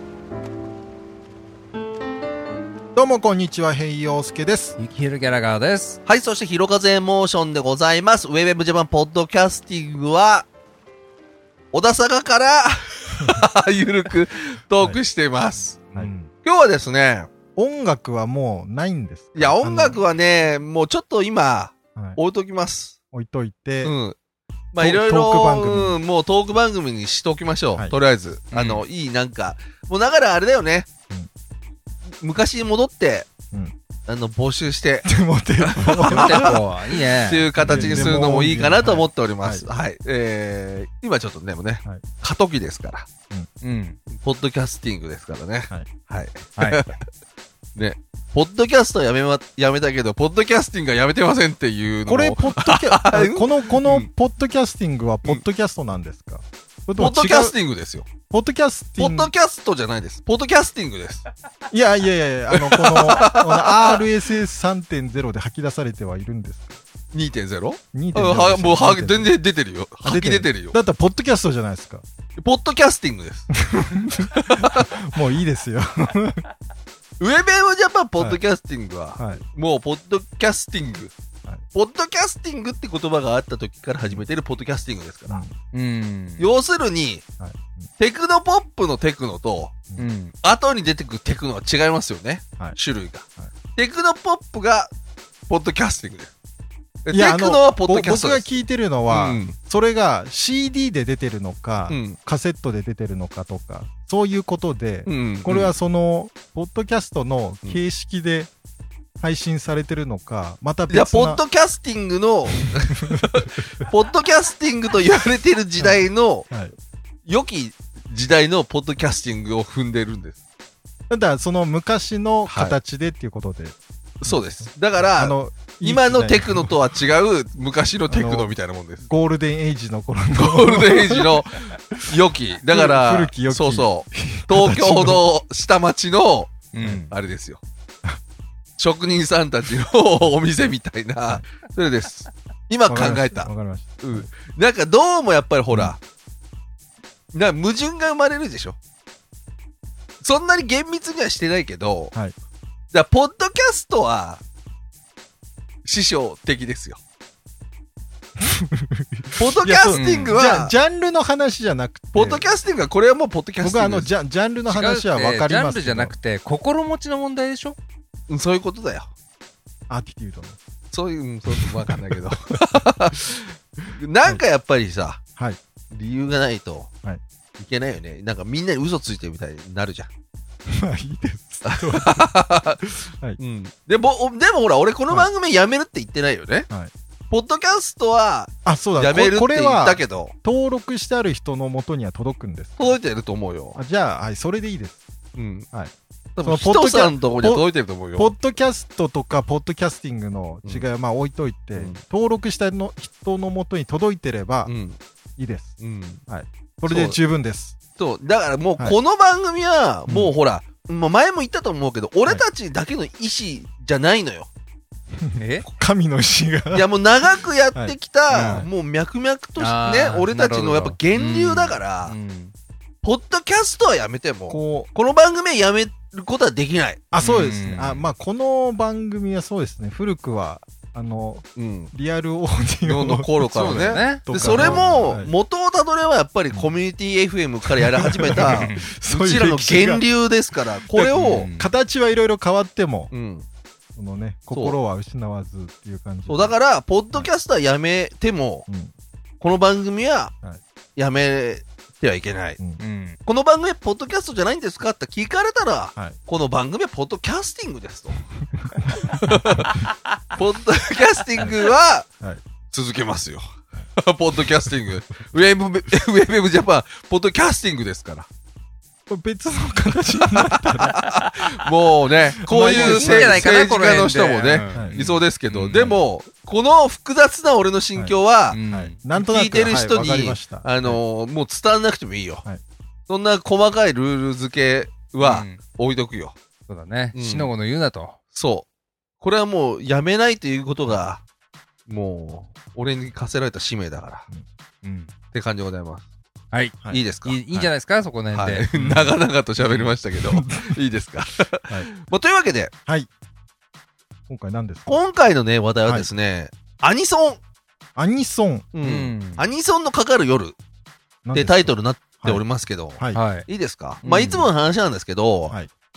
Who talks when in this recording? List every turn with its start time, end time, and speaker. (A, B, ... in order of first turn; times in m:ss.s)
0:03.0-0:04.8 A
0:04.8-0:06.0 B
0:06.1-0:10.5 C
0:11.7-0:17.3 C
0:15.9-0:16.3 A
0:17.6-0:20.0 A
0:19.4-0:23.0 C
0:23.1-0:23.9 A
0:23.8-0:24.2 C
0:24.7-0:30.9 C
0:24.8-0:26.0 A
0:28.5-0:28.8 B
0:32.1-0:33.3 C
0:34.1-0:43.1 C
0:35.1-0:36.6 A
0:36.0-0:38.2 B
0:37.6-0:39.6 A
0:43.6-0:44.0 B
0:44.1-0:47.0 C
0:46.6-0:46.9 B
0:47.8-0:54.1 C
0:52.1-0:57.6 A
0:57.0-0:58.1 C
0:58.3-0:59.3 A
0:59.0-1:01.2 C
1:01.7-1:06.8 A
1:02.5-1:04.0 C
1:07.1-1:10.8 C
1:07.9-1:09.3 A
1:10.0-1:12.0 A
1:12.4-1:13.5 C
1:13.5-1:16.4 A
1:14.2-1:15.0 C
1:17.2-1:21.1 C
1:19.2-1:19.4 A
1:21.7-1:25.4 C
1:25.3-1:25.5 A
1:25.7-1:26.5 B
1:26.4-1:27.2 C
1:27.4-1:27.9 A
1:28.0-1:29.8 C
1:30.0-1:30.3 B
1:30.4-1:34.9 C
1:35.5-1:36.3 C
1:37.0-1:38.5 C
1:37.1-1:48.5 A
1:39.1-1:39.6 C
1:41.9-1:42.2 C
1:45.1-1:45.7 C
1:49.2-1:51.4 A
1:50.9-1:56.5 C
1:53.0-1:53.2 A
1:55.8-1:56.7 A
1:57.3-2:00.4 C
2:01.1-2:06.7 A
2:02.5-2:02.8 C
2:04.2-2:09.0 C
2:08.1-2:08.5 A
2:09.0-2:11.4 A
2:10.4-2:17.6 C
2:12.7-2:15.2 A
2:16.7-2:17.1 B
2:18.8-2:26.0 C
2:22.9-2:24.3 A
2:27.3-2:28.8 C
2:30.2-2:32.1 C
2:32.9-2:34.4 C
2:35.8-2:37.0 C
2:38.4-2:42.4 A
2:39.4-2:40.7 C
2:39.9-2:40.4 B
2:42.1-2:44.1 C
2:43.6-2:46.1 A
2:44.7-2:47.8 B
2:48.3-2:49.1 C
2:49.9-2:50.6 A
2:50.9-2:55.2 C
2:51.5-2:52.4 A
2:55.9-2:56.9 C
2:57.6-3:00.1 C
3:00.7-3:02.3 A
3:01.6-3:06.7 C
3:07.3-3:10.4 C
3:08.6-3:13.0 A
3:12.8-3:13.8 C
3:13.8-3:15.0 A
3:15.4-3:15.7 C
3:15.7-3:24.7 A
3:16.4-3:18.3 C
3:21.8-3:22.0 C
3:24.7-3:25.0 C
3:25.4-3:27.8 A
3:25.8-3:26.2 C
3:26.9-3:27.2 C
3:28.0-3:34.5 C
3:30.1-3:30.3 A
3:35.2-3:36.9 A
3:35.4-3:35.7 B
3:36.7-3:42.2 C
3:37.8-3:38.7 A
3:38.4-3:38.7 B
3:39.6-3:42.5 B
3:43.0-3:47.0 C
3:44.5-3:44.9 A
3:47.1-3:55.3 A
3:47.2-3:48.0 B
3:51.6-3:51.9 C
3:52.8-4:01.5 C
3:53.5-3:55.0 B
3:57.8-4:00.0 A
3:58.4-3:58.9 B
4:00.8-4:03.1 A
4:01.1-4:01.7 B
4:03.1-4:03.5 C
4:04.0-4:06.6 A
4:04.5-4:04.8 C
4:06.3-4:08.7 C
4:08.7-4:08.9 A
4:09.4-4:10.3 C
4:11.0-4:12.6 C
4:12.8-4:13.2 B
4:13.3-4:18.2 C
4:18.5-4:19.6 A
4:19.0-4:22.1 C
4:22.7-4:28.3 C
4:29.1-4:31.0 A
4:30.2-4:38.6 C
4:31.0-4:31.4 B
4:32.4-4:33.4 A
4:32.6-4:36.0 B
4:34.7-4:35.0 A
4:38.5-4:39.0 B
4:38.7-4:41.0 A
4:39.1-4:42.4 C
4:43.1-4:46.4 C
4:45.2-4:45.6 B
4:46.7-4:48.2 B
4:47.1-4:47.5 C
4:48.3-4:48.7 C
4:49.2-4:51.2 C
4:51.9-4:54.3 C
4:54.8-4:55.1 B
4:55.3-4:56.0 C
4:56.5-4:58.7 B
4:56.9-4:57.4 C
4:58.3-5:02.7 C
4:58.8-4:59.2 A
4:59.6-5:00.0 B
5:00.3-5:00.8 A
5:04.3-5:05.0 A
5:04.9-5:07.4 C
5:08.0-5:08.7 A
5:08.7-5:10.6 C
5:08.8-5:09.4 B
5:11.2-5:12.4 A
5:11.3-5:15.6 C
5:13.1-5:13.5 B
5:14.0-5:14.5 B